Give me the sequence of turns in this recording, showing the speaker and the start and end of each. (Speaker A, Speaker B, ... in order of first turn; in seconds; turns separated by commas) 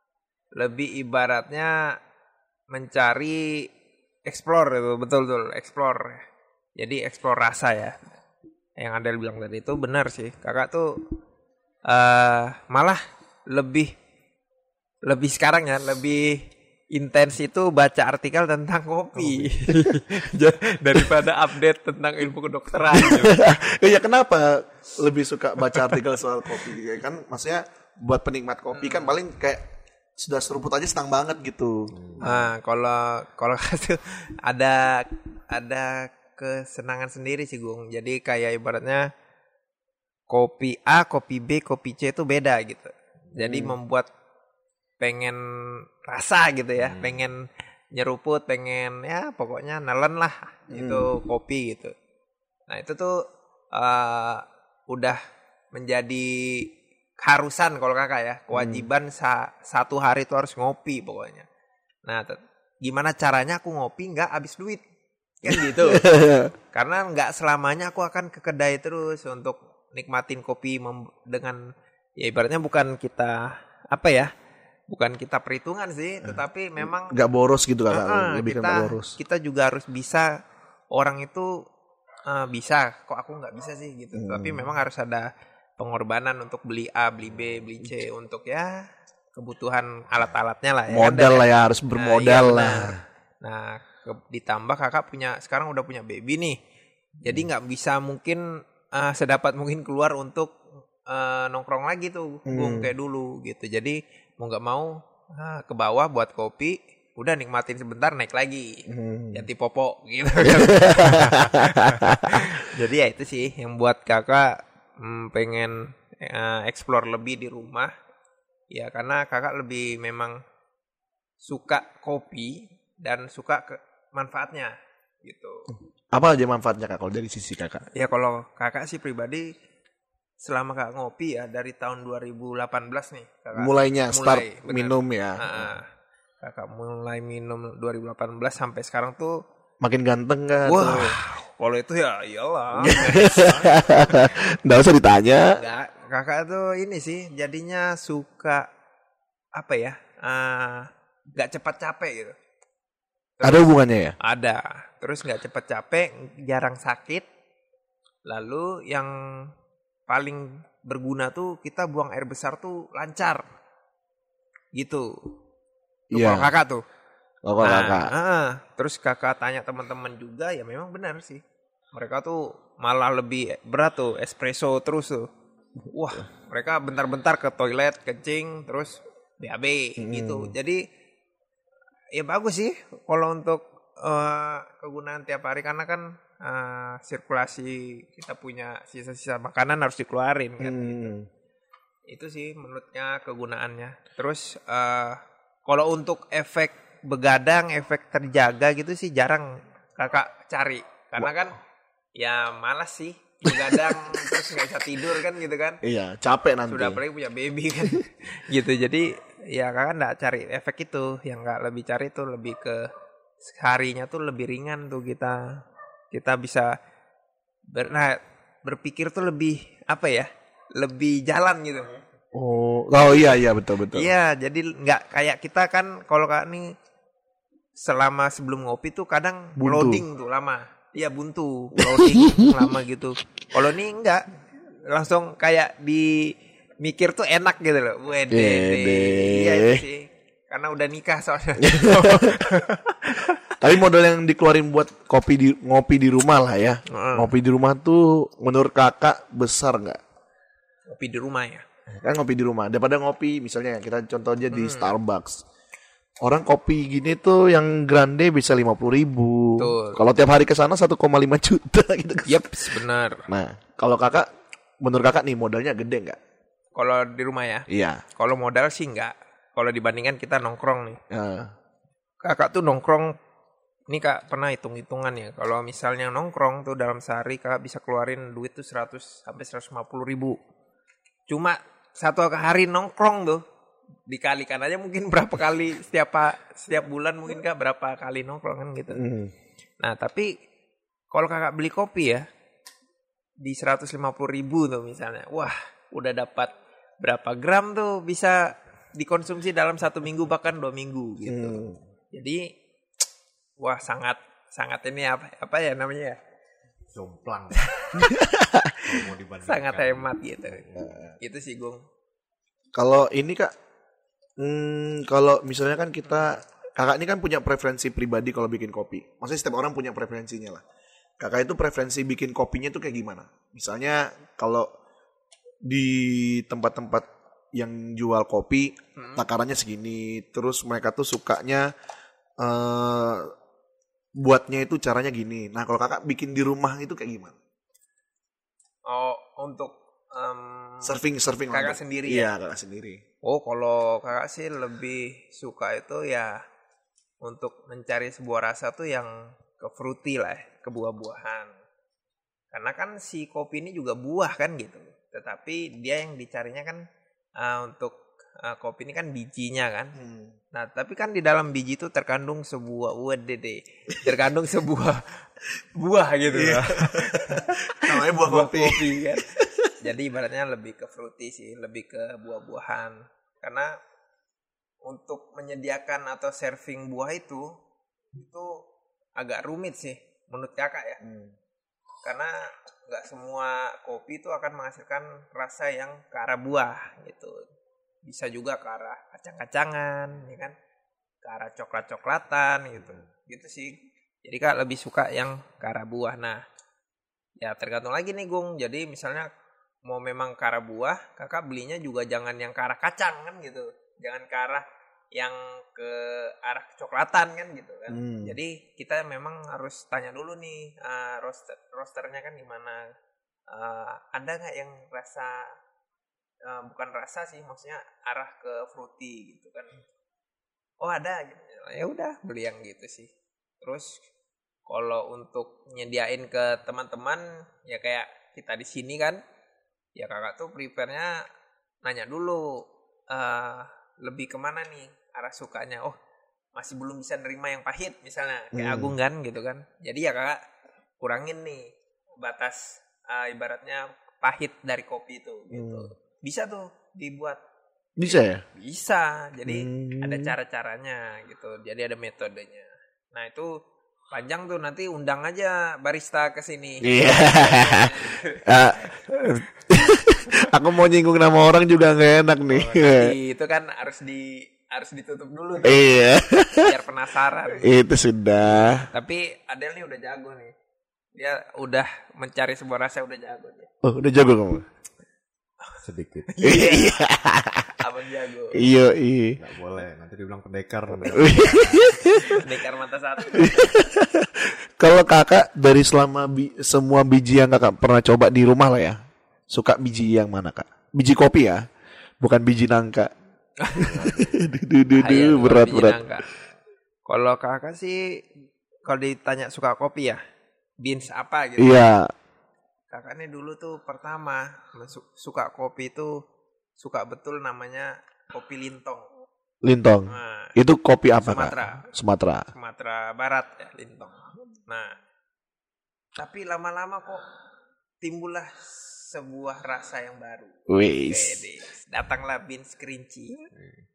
Speaker A: 0.5-1.9, Speaker A: 2.7-3.7, Speaker A: 4.2-6.2, Speaker A: 6.8-8.0, Speaker A: 8.8-11.0, Speaker A: 11.8-13.9, Speaker A: 15.0-23.5, Speaker B: 19.1-19.5, Speaker C: 22.9-29.6, Speaker A: 28.7-29.1, Speaker C: 30.2-32.5, Speaker B: 31.9-32.2, Speaker A: 32.2-39.1, Speaker A: 40.3-44.1, Speaker C: 43.4-43.8, Speaker A: 45.0-47.4, Speaker B: 46.8-47.3, Speaker A: 47.9-51.9, Speaker C: 50.7-51.1, Speaker A: 52.7-53.2, Speaker A: 53.7-55.2, Speaker A: 55.7-56.7, Speaker A: 57.2-61.5, Speaker C: 58.5-58.9, Speaker A: 62.0-64.8, Speaker A: 65.4-66.1, Speaker C: 65.5-66.5, Speaker A: 66.7-71.6, Speaker A: 72.2-74.3, Speaker A: 74.9-77.2, Speaker C: 76.2-79.2, Speaker A: 77.9-80.3, Speaker A: 80.9-81.6, Speaker A: 82.3-96.6, Speaker C: 84.1-84.7, Speaker C: 90.9-93.0, Speaker A: 97.2-100.5, Speaker A: 101.0-117.9, Speaker C: 102.5-102.9, Speaker C: 108.9-109.5, Speaker C: 110.6-112.4, Speaker A: 118.7-120.4, Speaker A: 121.4-125.7, Speaker C: 126.1-127.9, Speaker A: 127.9-129.5, Speaker A: 130.4-135.9, Speaker C: 133.6-135.5, Speaker A: 136.4-139.4, Speaker C: 139.8-141.2, Speaker A: 140.6-144.3, Speaker C: 142.8-145.5, Speaker A: 145.5-148.7, Speaker A: 149.5-152.3, Speaker A: 153.4-153.7, Speaker C: 153.4-154.2, Speaker A: 154.2-157.3, Speaker A: 158.2-159.5, Speaker A: 160.1-163.4, Speaker A: 164.7-165.3, Speaker C: 166.1-166.5, Speaker A: 166.1-166.8, Speaker C: 167.4-168.1, Speaker A: 167.6-171.4, Speaker A: 171.9-175.3, Speaker A: 175.9-180.8, Speaker C: 180.0-180.5, Speaker A: 182.1-191.1, Speaker C: 190.6-191.3, Speaker A: 192.1-201.6, Speaker A: 202.2-205.8, Speaker C: 203.5-204.3, Speaker C: 205.8-207.0, Speaker A: 206.7-212.9, Speaker A: 213.4-215.6, Speaker A: 216.1-216.8, Speaker A: 217.7-221.9, Speaker C: 222.3-224.1, Speaker A: 223.9-226.7, Speaker A: 227.8-234.2, Speaker C: 229.6-230.0, Speaker C: 231.8-232.7, Speaker A: 234.8-243.4, Speaker C: 238.3-239.8, Speaker C: 241.6-242.4, Speaker C: 243.5-250.0, Speaker A: 246.9-247.3, Speaker A: 250.9-251.6, Speaker C: 252.0-255.4, Speaker A: 254.5-255.0, Speaker C: 256.2-264.3, Speaker A: 259.6-260.0, Speaker A: 262.3-263.2, Speaker C: 264.8-266.2, Speaker A: 266.8-271.0, Speaker C: 267.7-268.0, Speaker C: 271.1-271.5, Speaker A: 272.2-273.2, Speaker A: 273.9-280.4, Speaker A: 281.3-283.4, Speaker A: 284.1-289.0, Speaker C: 288.9-289.3, Speaker A: 289.8-290.3, Speaker A: 291.1-292.2, Speaker A: 293.4-302.5, Speaker C: 301.2-301.8, Speaker A: 303.6-306.2, Speaker B: 306.9-307.6, Speaker A: 307.6-308.0, Speaker C: 308.0-308.8, Speaker B: 308.8-310.9, Speaker A: 309.4-310.6, Speaker C: 310.8-311.2, Speaker A: 311.2-311.8, Speaker C: 312.7-313.5, Speaker C: 314.4-320.6, Speaker C: 321.2-324.7, Speaker C: 325.6-331.7, Speaker A: 329.0-329.2, Speaker C: 332.4-333.3, Speaker C: 334.1-337.4, Speaker A: 338.9-341.0, Speaker C: 340.8-343.0, Speaker A: 341.5-342.3, Speaker A: 343.2-346.4, Speaker A: 347.2-351.5, Speaker A: 352.5-356.8, Speaker A: 357.4-359.9, Speaker C: 359.9-360.4, Speaker A: 360.5-365.0, Speaker A: 365.8-373.8, Speaker C: 366.3-369.7, Speaker A: 374.8-377.5, Speaker A: 378.1-378.6, Speaker A: 379.2-381.0, Speaker C: 381.0-381.3, Speaker A: 382.0-387.4, Speaker A: 388.0-390.5, Speaker A: 391.2-396.4, Speaker A: 397.4-399.3, Speaker A: 399.9-412.9, Speaker C: 407.9-408.4, Speaker A: 413.5-415.5, Speaker A: 416.4-419.8, Speaker A: 420.8-423.1, Speaker A: 423.6-424.0, Speaker A: 424.7-429.2, Speaker A: 429.9-431.2, Speaker A: 431.8-435.9, Speaker A: 436.6-440.4, Speaker C: 438.5-438.9, Speaker A: 441.0-447.4, Speaker C: 445.5-445.9, Speaker C: 448.0-448.4, Speaker A: 448.0-453.6, Speaker C: 449.4-450.3, Speaker A: 454.1-458.6, Speaker C: 456.8-463.1, Speaker A: 462.5-465.9, Speaker C: 465.6-466.7, Speaker A: 466.6-467.7, Speaker C: 467.6-468.9, Speaker A: 468.7-470.5, Speaker A: 471.1-473.7, Speaker C: 473.8-474.6, Speaker B: 475.8-476.4, Speaker A: 476.3-477.0, Speaker C: 476.4-477.8, Speaker A: 477.8-478.6, Speaker C: 478.5-479.4, Speaker B: 479.4-482.1, Speaker C: 481.1-482.4, Speaker A: 482.2-483.6, Speaker C: 483.3-491.7, Speaker C: 492.2-493.1, Speaker A: 493.6-494.1, Speaker C: 493.8-496.1, Speaker B: 493.9-494.2, Speaker A: 494.9-496.2, Speaker A: 497.1-498.2, Speaker A: 498.8-500.2, Speaker A: 500.8-501.9, Speaker C: 501.6-502.1, Speaker A: 502.9-506.2, Speaker A: 506.8-509.1, Speaker C: 509.6-512.5, Speaker A: 510.1-510.6, Speaker A: 511.2-511.9, Speaker A: 512.5-515.0, Speaker A: 516.2-517.2, Speaker A: 518.0-523.5, Speaker C: 520.7-521.4, Speaker B: 523.5-523.9